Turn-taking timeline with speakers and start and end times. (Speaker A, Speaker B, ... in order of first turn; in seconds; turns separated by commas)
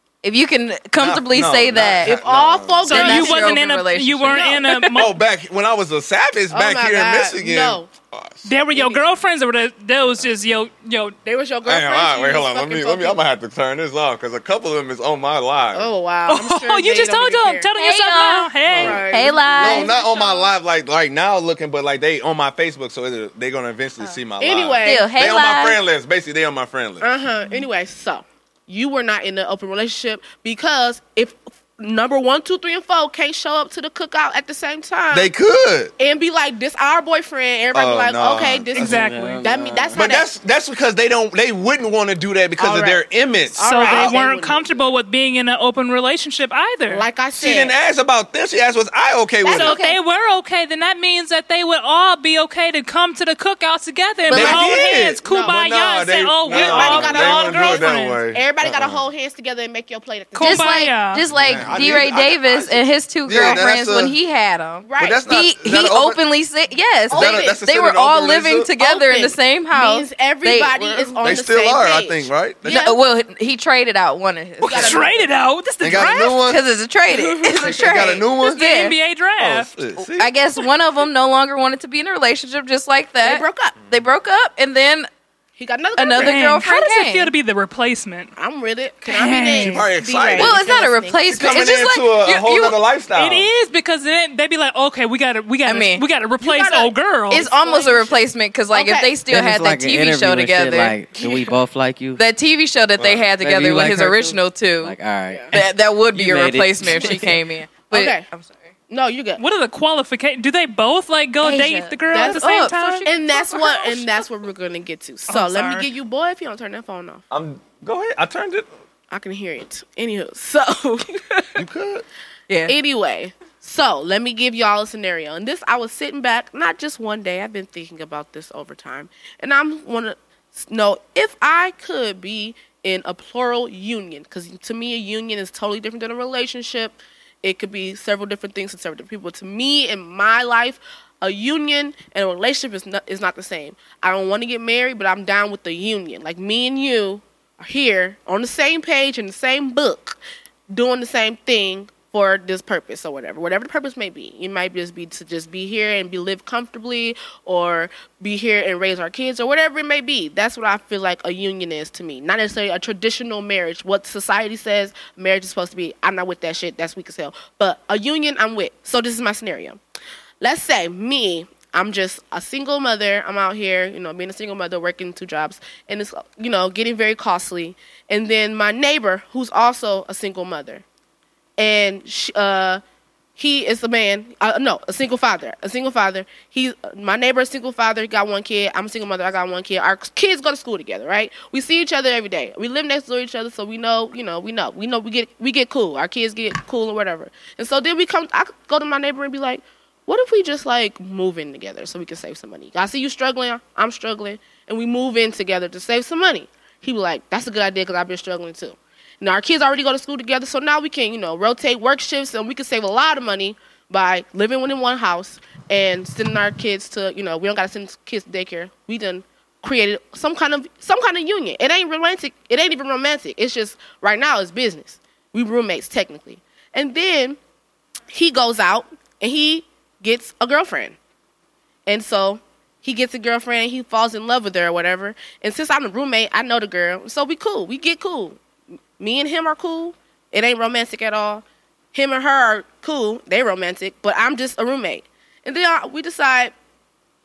Speaker A: 0.2-2.1, Speaker B: 1.0-2.9, Speaker C: 2.0-3.5, Speaker A: 2.8-5.0, Speaker D: 2.9-5.1, Speaker C: 4.3-4.7, Speaker B: 4.9-8.5, Speaker C: 6.5-7.9, Speaker D: 8.4-11.2, Speaker C: 8.7-9.1, Speaker C: 11.2-13.2, Speaker B: 11.7-15.9, Speaker C: 15.7-17.7, Speaker D: 16.3-19.1, Speaker A: 17.8-18.5, Speaker C: 18.7-20.5, Speaker B: 18.7-27.1, Speaker A: 19.1-19.9, Speaker C: 24.4-25.1, Speaker A: 24.8-25.8, Speaker C: 27.0-35.3, Speaker B: 35.1-35.9, Speaker C: 36.0-40.3, Speaker B: 37.7-39.0, Speaker D: 38.8-39.4, Speaker E: 38.8-40.0, Speaker B: 40.0-44.2, Speaker C: 42.6-44.8, Speaker D: 43.6-47.1, Speaker C: 46.9-47.8, Speaker B: 47.3-49.8, Speaker C: 49.5-50.0, Speaker D: 49.5-58.2, Speaker A: 54.3-54.7, Speaker B: 54.3-59.0, Speaker C: 55.2-55.6, Speaker C: 56.5-60.9, Speaker D: 60.4-61.2, Speaker A: 60.4-71.4, Speaker B: 61.4-64.2, Speaker C: 63.3-63.6, Speaker C: 64.8-65.4, Speaker B: 65.0-66.2, Speaker C: 67.1-67.6, Speaker B: 67.1-68.7, Speaker C: 68.8-73.0, Speaker B: 71.2-72.9, Speaker A: 72.7-75.1, Speaker D: 74.7-76.4, Speaker C: 74.7-75.3, Speaker B: 75.8-76.6, Speaker A: 76.4-78.9, Speaker C: 77.1-78.2, Speaker B: 77.6-78.6, Speaker D: 78.5-79.7, Speaker B: 79.4-80.3, Speaker A: 80.2-85.1, Speaker C: 83.2-83.8, Speaker C: 85.6-86.5, Speaker A: 86.0-87.3, Speaker D: 86.2-88.3, Speaker C: 88.4-91.6, Speaker D: 89.1-89.9, Speaker B: 89.5-90.6, Speaker A: 90.4-92.8, Speaker B: 91.3-93.5, Speaker D: 93.2-97.5, Speaker A: 95.7-96.0, Speaker C: 96.4-99.1, Speaker A: 97.3-101.0, Speaker E: 99.3-102.2, Speaker C: 101.2-101.5, Speaker A: 102.2-105.0, Speaker B: 103.0-103.3, Speaker E: 103.4-107.4, Speaker A: 105.5-108.6, Speaker C: 107.9-108.3, Speaker C: 108.9-109.4, Speaker D: 109.4-113.1, Speaker A: 111.4-114.2, Speaker C: 112.1-112.5, Speaker C: 113.0-117.2, Speaker D: 115.3-115.8, Speaker B: 117.3-118.7, Speaker C: 119.1-121.6, Speaker B: 121.6-122.0, Speaker A: 122.5-122.8, Speaker C: 122.7-150.2, Speaker C: 150.7-169.8, Speaker C: 170.4-180.8, Speaker C: 181.6-182.8, Speaker C: 183.4-227.4, Speaker C: 228.1-231.0, Speaker C: 231.9-238.4, Speaker C: 239.0-246.5